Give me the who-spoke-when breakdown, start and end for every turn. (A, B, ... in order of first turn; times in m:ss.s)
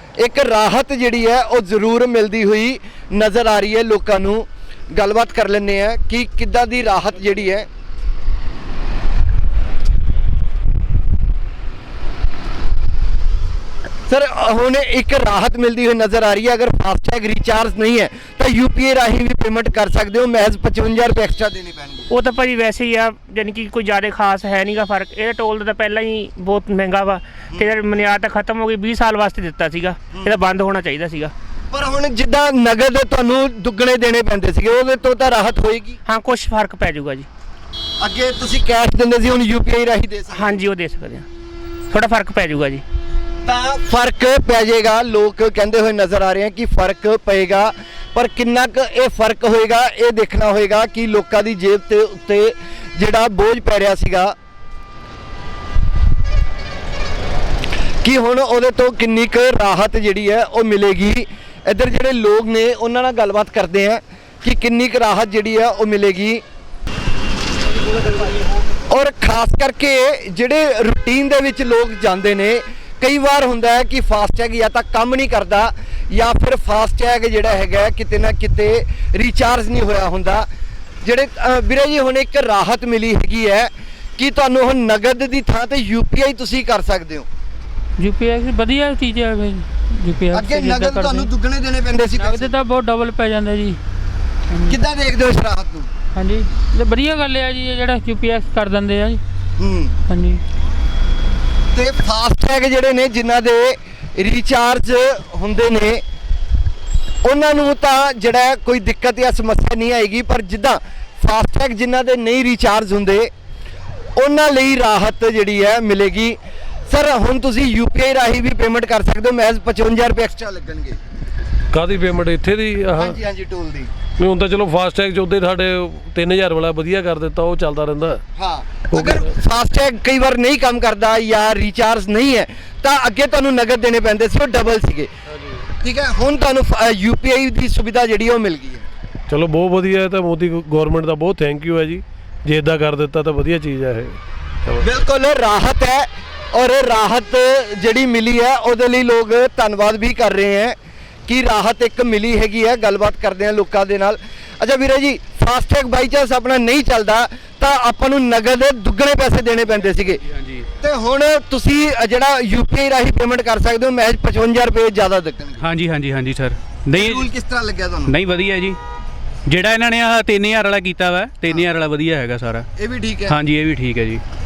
0:00.2-0:07.7 A
0:14.1-0:22.1 A
0:22.1-0:31.3 B
0:31.7-0:36.0 A
0:36.1-0:37.3 B
0:38.0-0:40.6 A
0:40.3-0:41.3 B
0:41.9-0:42.8 B
0:43.4-0:54.3 A
0:58.0-1:06.4 A
1:08.9-1:20.5 A
1:21.0-1:27.3 A
1:28.0-1:31.3 C
1:30.3-1:32.5 A
1:32.2-1:33.8 C
1:34.7-1:35.9 A
1:36.2-1:39.2 C
1:39.6-1:40.0 A
1:40.1-1:40.4 C
1:41.7-1:46.0 A
1:47.2-1:53.3 A
1:54.2-1:56.4 A
1:56.9-2:01.0 A
2:01.7-2:03.2 D
2:02.9-2:03.9 A
2:04.2-2:08.2 D
2:08.4-2:15.1 A
2:08.9-2:09.3 D
2:15.8-2:18.9 A
2:19.3-2:24.9 D
2:24.8-2:40.2 A
2:40.8-2:45.7 A
2:45.6-2:47.3 E
2:46.9-2:48.2 A
2:48.1-2:48.8 E
2:49.5-2:52.7 E
2:52.8-2:53.4 A
2:53.3-2:54.2 E